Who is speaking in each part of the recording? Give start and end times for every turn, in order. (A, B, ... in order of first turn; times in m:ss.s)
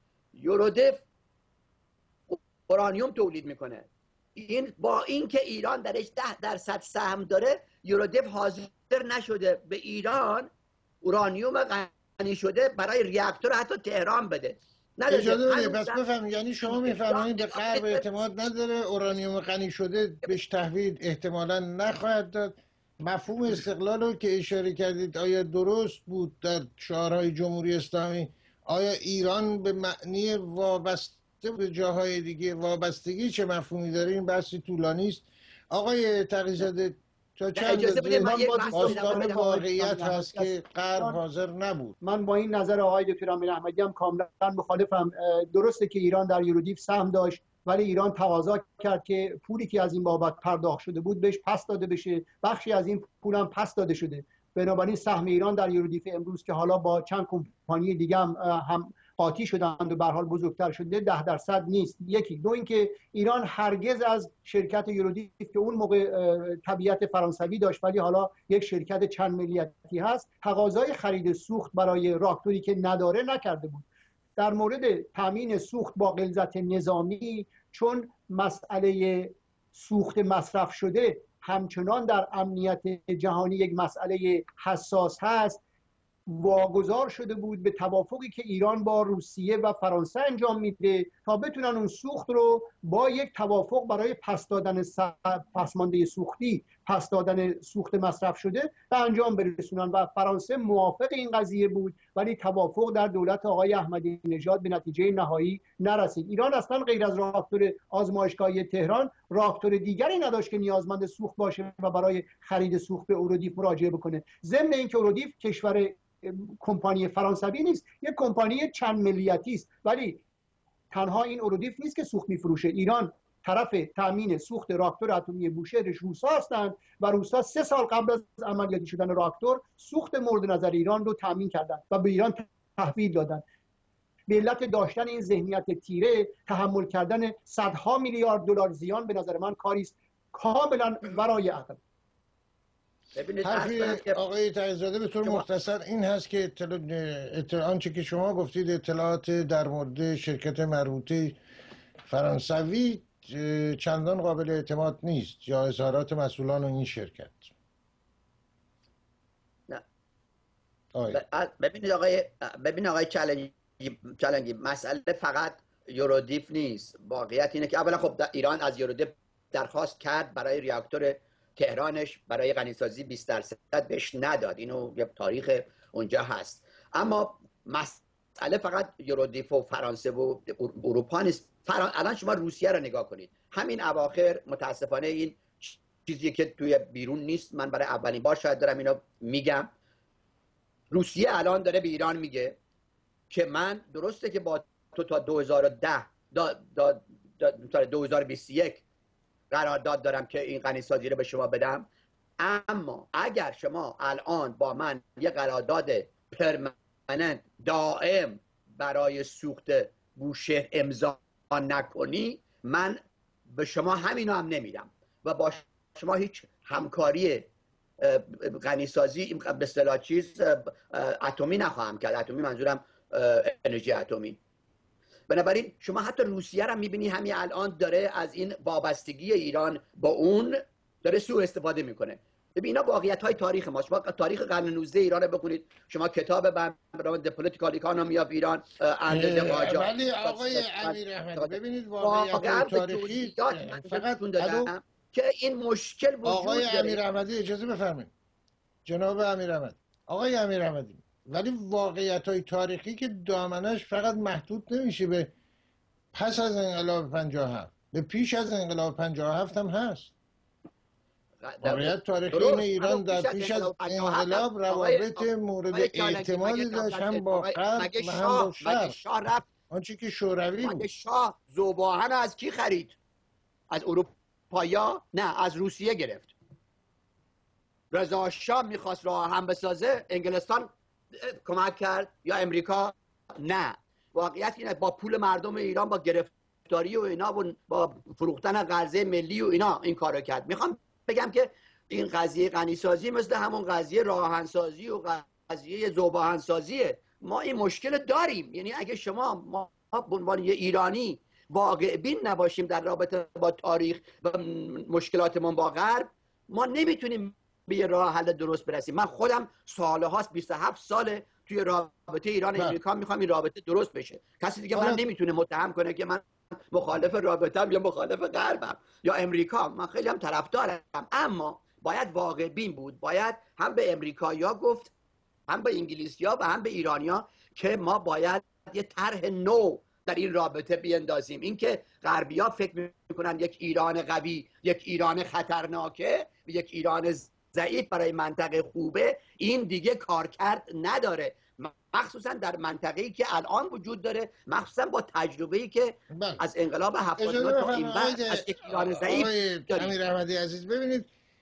0:00.3-0:01.0 A
0:02.3-0:10.5 A
0:11.0-0:16.0 A
0:15.1-0:42.0 B
0:16.7-0:18.0 A
0:37.6-0:39.3 A
0:38.5-0:41.2 C
0:42.0-1:13.8 C
1:14.4-1:25.6 C
1:26.3-2:00.2 C
2:00.9-2:13.4 C
2:14.3-2:21.8 C
2:23.1-2:24.2 A
2:23.4-2:31.4 B
2:32.0-2:37.5 B
2:40.9-2:41.2 B
2:41.1-3:09.7 A
3:10.9-3:12.6 A
3:13.3-3:18.8 A
3:19.5-3:21.9 A
3:22.4-3:33.0 A
3:33.5-3:37.5 A
3:38.0-3:44.4 A
3:45.3-4:07.0 A
3:59.1-4:04.7 B
4:06.2-4:08.1 B
4:08.8-4:15.3 B
4:16.1-4:20.1 B
4:21.4-4:29.5 A
4:21.6-4:29.0 B
4:29.7-4:30.8 B
4:30.6-4:33.0 A
4:33.7-4:36.3 A
4:37.9-5:24.9 A
5:14.7-5:15.0 B
5:25.5-5:49.9 A
5:46.1-5:46.4 B
5:47.2-5:51.1 B